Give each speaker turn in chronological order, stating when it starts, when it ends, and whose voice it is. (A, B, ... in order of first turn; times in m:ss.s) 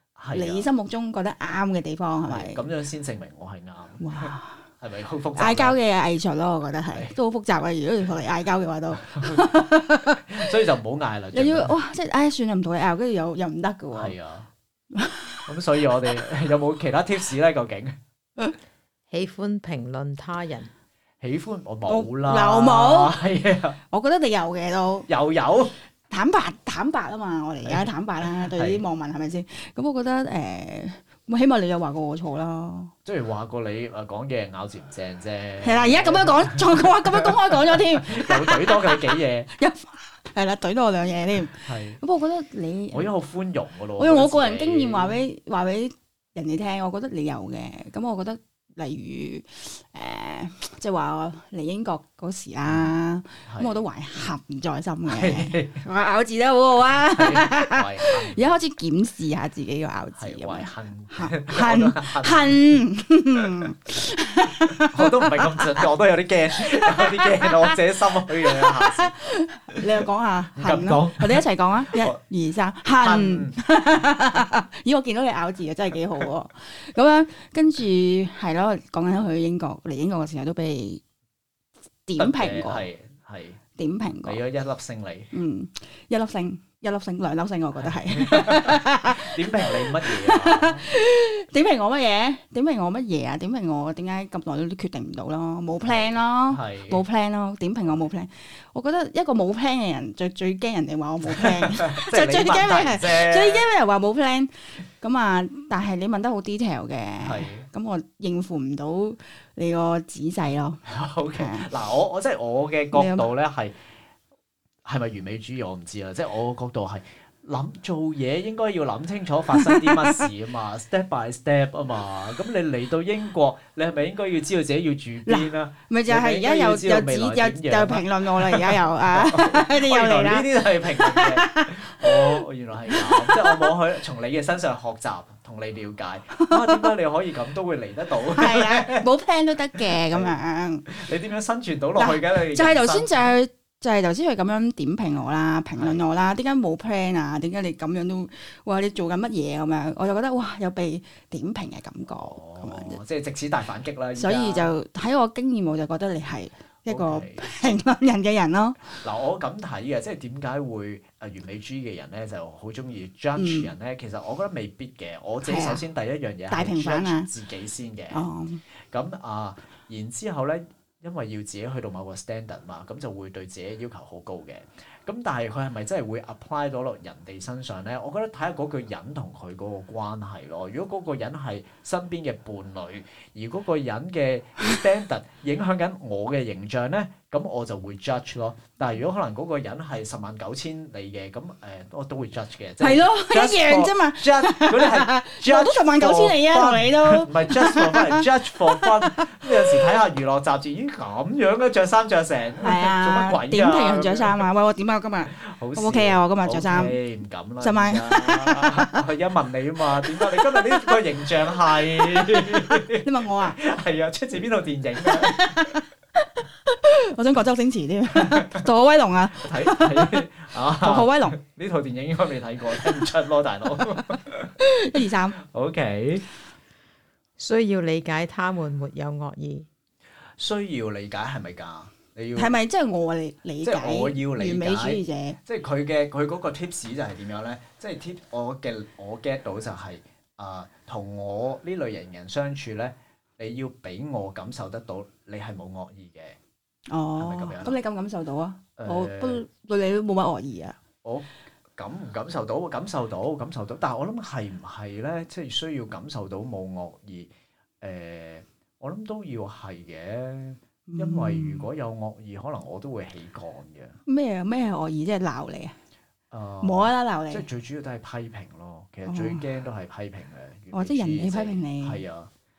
0:00.2-0:00.7 A
0:00.3-0:02.6 B
0:02.2-0:05.8 A
0:04.0-0:04.6 B
0:05.4-0:10.5 B
0:09.0-0:09.4 A
0:10.3-0:11.8 A
0:11.3-0:14.1 B
0:13.9-0:14.5 A
0:14.9-0:15.5 B
0:15.5-0:18.0 A
0:19.1-0:20.7 C
0:21.2-0:23.8 A
0:21.9-0:23.2 B
0:23.9-0:25.1 B
0:25.1-0:25.8 A
0:26.1-0:32.9 B
0:28.4-0:28.8 A
0:33.0-0:39.5 A
0:35.6-0:43.1 B
0:41.7-0:42.0 A
0:42.9-0:45.2 A
0:44.0-1:05.8 B
0:52.7-0:52.9 A
0:53.5-0:53.8 A
0:55.1-0:55.8 A
0:57.1-0:58.5 A
1:00.2-1:02.8 A
1:04.8-1:09.2 A
1:06.7-1:07.8 B
1:08.4-1:21.0 B
1:10.6-1:12.2 A
1:13.0-1:13.6 A
1:22.1-1:22.8 B
1:22.2-1:23.6 A
1:23.8-1:24.4 B
1:24.2-1:25.3 A
1:25.3-1:50.8 B
1:28.1-1:30.9 A
1:35.8-1:37.0 A
1:41.3-1:43.7 A
1:47.2-1:47.7 A
1:50.9-1:53.8 A
1:51.4-1:51.7 B
1:52.9-1:53.3 B
1:54.9-2:19.0 A
1:59.5-2:00.3 B
2:05.3-2:13.7 B
2:16.4-2:16.9 B
2:18.3-2:21.0 B
2:19.9-2:20.4 A
2:20.9-2:23.3 A
2:22.0-2:33.0 B
2:25.8-2:26.0 A
2:32.1-2:34.7 A
2:34.2-2:39.0 B
2:36.9-2:37.6 A
2:39.0-2:48.2 A
2:43.4-2:43.7 B
2:45.4-2:45.8 B
2:46.5-2:47.3 B
2:48.1-2:48.6 B
2:48.9-3:24.5 A
3:12.8-3:19.6 B
3:22.6-3:27.0 B
3:25.3-3:35.7 A
3:27.6-3:29.0 B
3:30.2-3:31.0 B
3:31.9-3:33.6 B
3:35.0-3:40.2 B
3:38.2-3:38.6 A
3:39.4-3:44.5 A
3:40.8-3:41.4 B
3:44.6-3:45.4 B
3:45.4-3:46.3 A
3:47.4-3:49.7 C
3:50.4-3:52.6 A
3:52.4-3:55.4 B
3:53.6-4:06.4 A
4:06.9-4:10.8 B
4:07.2-4:07.8 A
4:08.8-4:09.4 A
4:11.0-4:17.3 A
4:17.8-4:24.0 A
4:20.9-4:21.7 B
4:24.1-4:25.8 B
4:26.3-4:32.3 A
4:26.6-4:27.4 B
4:29.1-4:29.4 B
4:30.7-4:32.0 B